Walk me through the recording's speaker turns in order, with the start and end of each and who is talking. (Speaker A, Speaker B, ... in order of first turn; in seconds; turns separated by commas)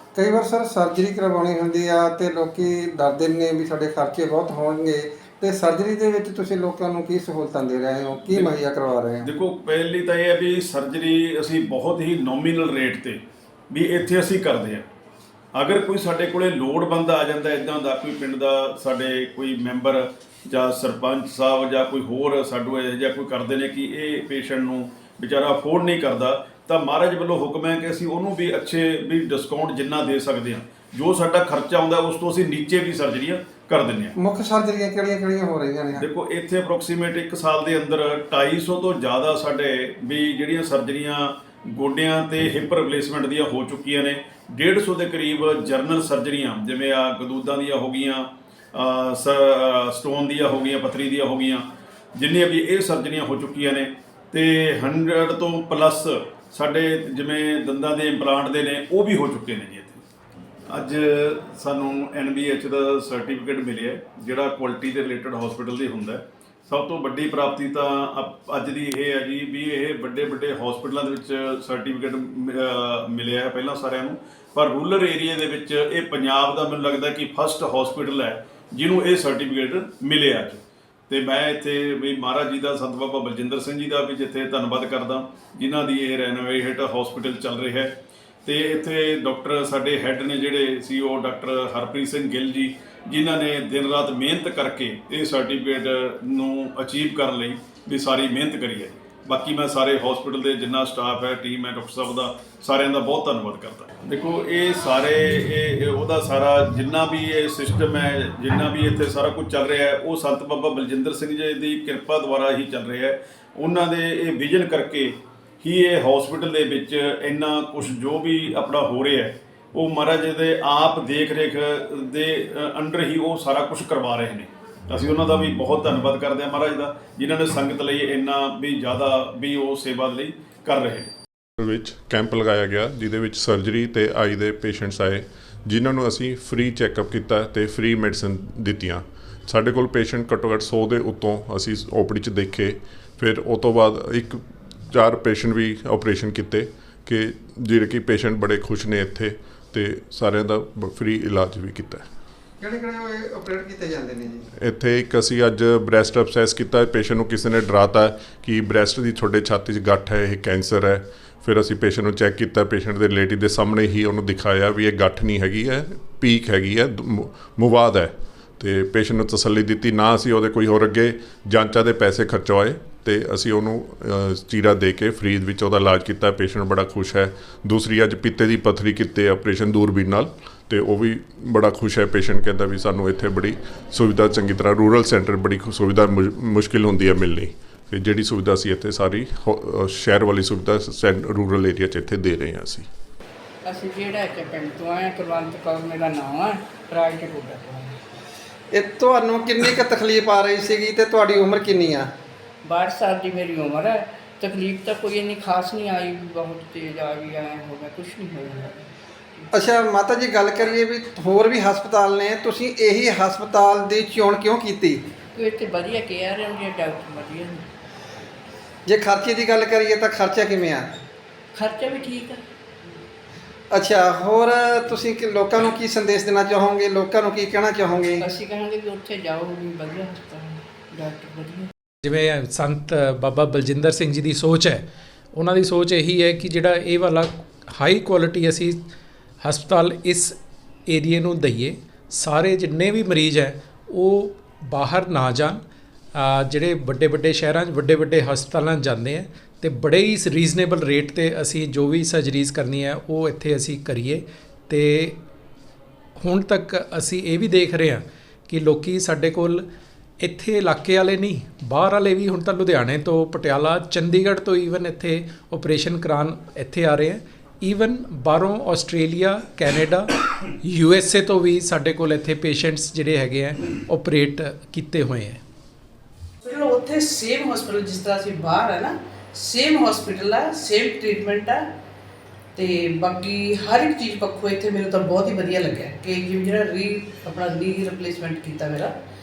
Speaker A: 0.1-9.3, Speaker B: 9.2-14.8, Speaker B: 15.5-34.1, Speaker A: 34.2-36.0, Speaker B: 36.0-60.0, Speaker B: 60.7-131.1, Speaker C: 131.6-152.0, Speaker A: 152.6-154.5, Speaker C: 154.6-192.9, Speaker D: 193.6-197.9, Speaker A: 198.7-202.1, Speaker D: 202.6-209.5, Speaker A: 209.5-215.0, Speaker D: 215.3-217.6, Speaker A: 218.8-220.9, Speaker D: 221.5-222.4, Speaker A: 223.7-228.2, Speaker D: 228.2-231.7, Speaker E: 232.0-238.8, Speaker E: 239.4-245.6, Speaker E: 246.1-255.2, Speaker E: 256.2-259.6, Speaker E: 260.2-275.4, Speaker F: 276.4-281.6, Speaker F: 282.5-288.9